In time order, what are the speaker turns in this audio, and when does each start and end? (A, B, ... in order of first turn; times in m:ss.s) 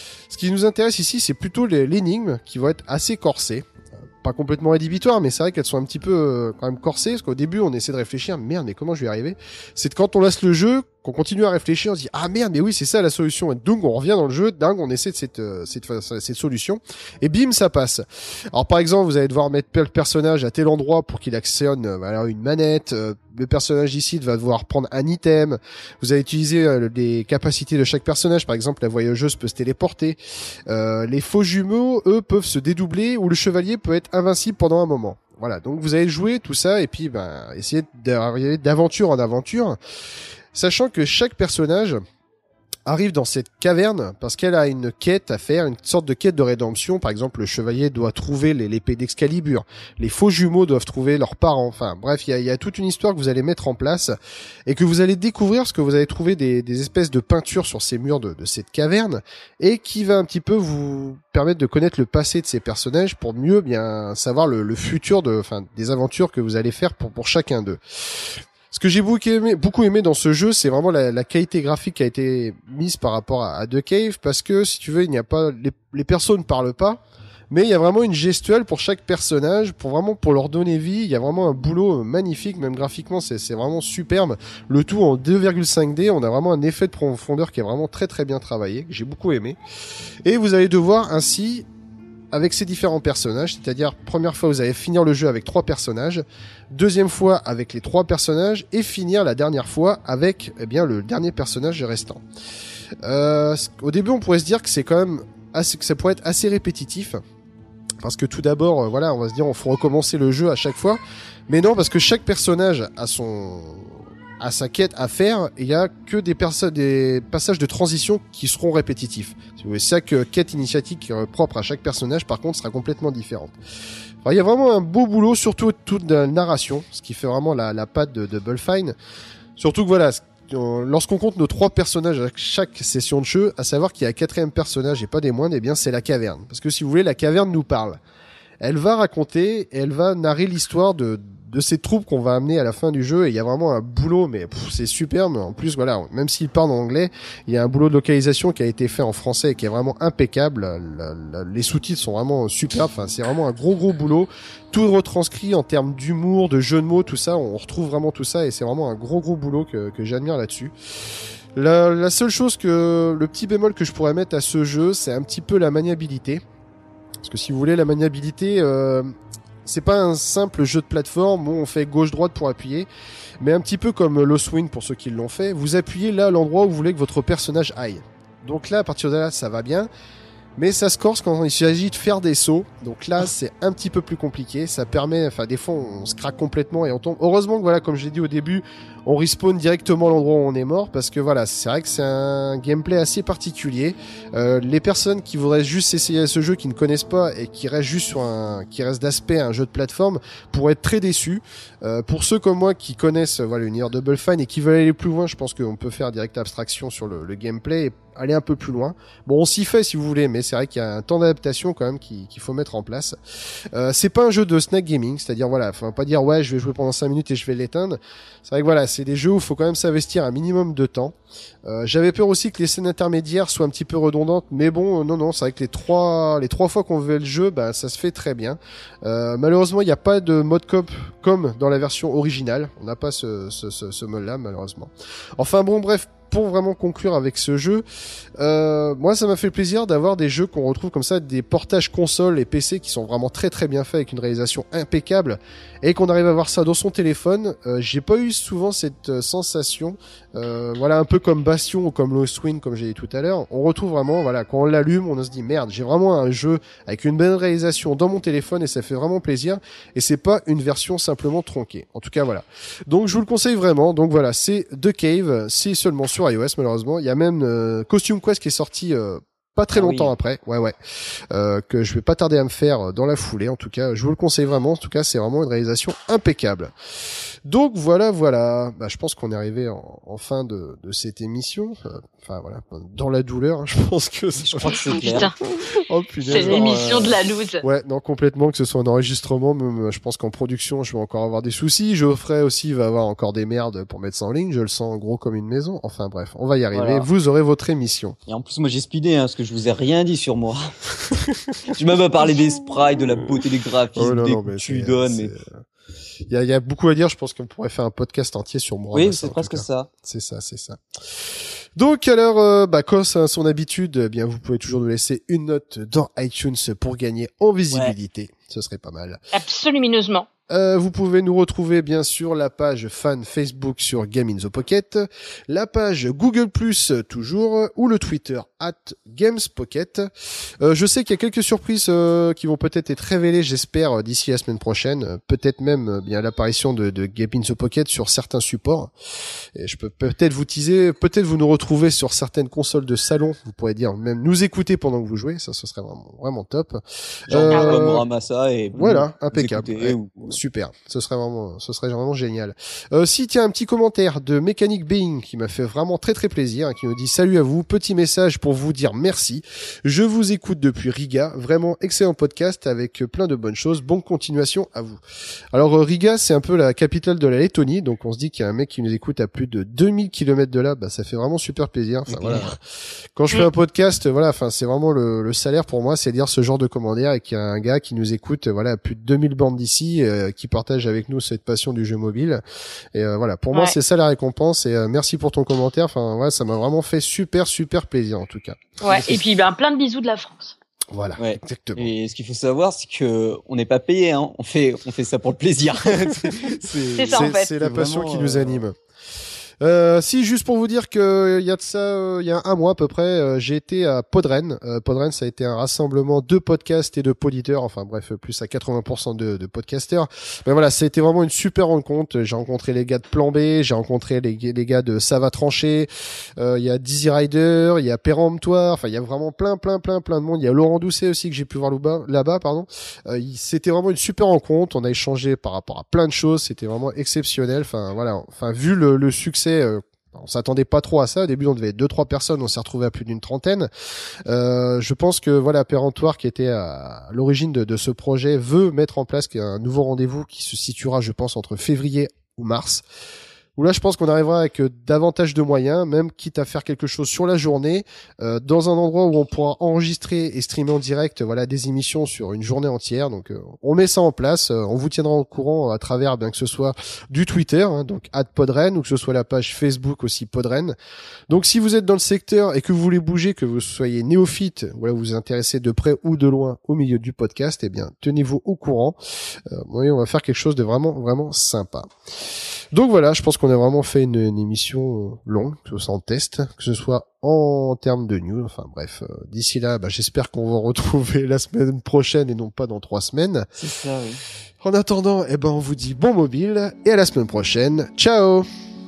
0:00.3-0:03.7 A
0:04.2-0:39.8 A
0:40.5-0:42.0 A
0:42.9-0:54.2 A
0:54.7-1:17.0 A
1:17.5-1:29.6 A
1:30.2-1:31.7 A
1:32.3-1:42.2 A
1:43.0-1:47.2 A
1:48.0-2:03.6 A
2:04.2-2:09.0 A
2:09.6-2:18.0 A
2:18.6-2:40.7 A
2:41.6-2:46.4 A
2:47.2-2:49.1 A
2:49.7-2:52.9 A
2:53.4-2:59.9 A
3:00.6-3:33.2 A
3:33.7-3:57.8 A
3:58.4-4:30.8 A
4:29.7-4:30.1 B
4:31.3-4:36.7 A
4:37.5-4:58.2 A
4:44.4-4:45.3 B
4:44.9-4:45.3 C
4:46.3-4:46.8 B
4:46.3-4:47.6 C
4:56.7-4:57.1 B
4:58.3-5:00.8 B
5:01.7-5:05.3 B
5:04.0-5:05.6 A
5:06.3-5:19.2 A
5:08.9-5:09.9 B
5:19.3-5:20.3 C
5:20.5-5:30.1 A
5:30.6-5:38.9 A
5:39.6-5:48.0 A
5:47.3-5:50.4 B
5:47.5-5:47.9 C
5:48.8-6:05.0 A
6:05.5-6:12.6 A
6:12.1-6:12.5 B
6:13.2-6:22.4 A
6:22.9-6:28.8 A
6:28.8-6:30.6 C
6:28.9-6:29.2 B
6:30.9-6:31.9 A
6:31.2-6:38.6 B
6:36.1-6:38.8 A
6:37.0-6:37.5 C
6:39.6-7:13.7 A
7:14.3-7:22.8 A
7:23.6-7:40.8 A
7:41.3-7:49.0 A
7:49.5-7:51.9 A
7:52.7-8:03.5 A
8:03.6-8:04.2 B
8:04.6-8:08.5 A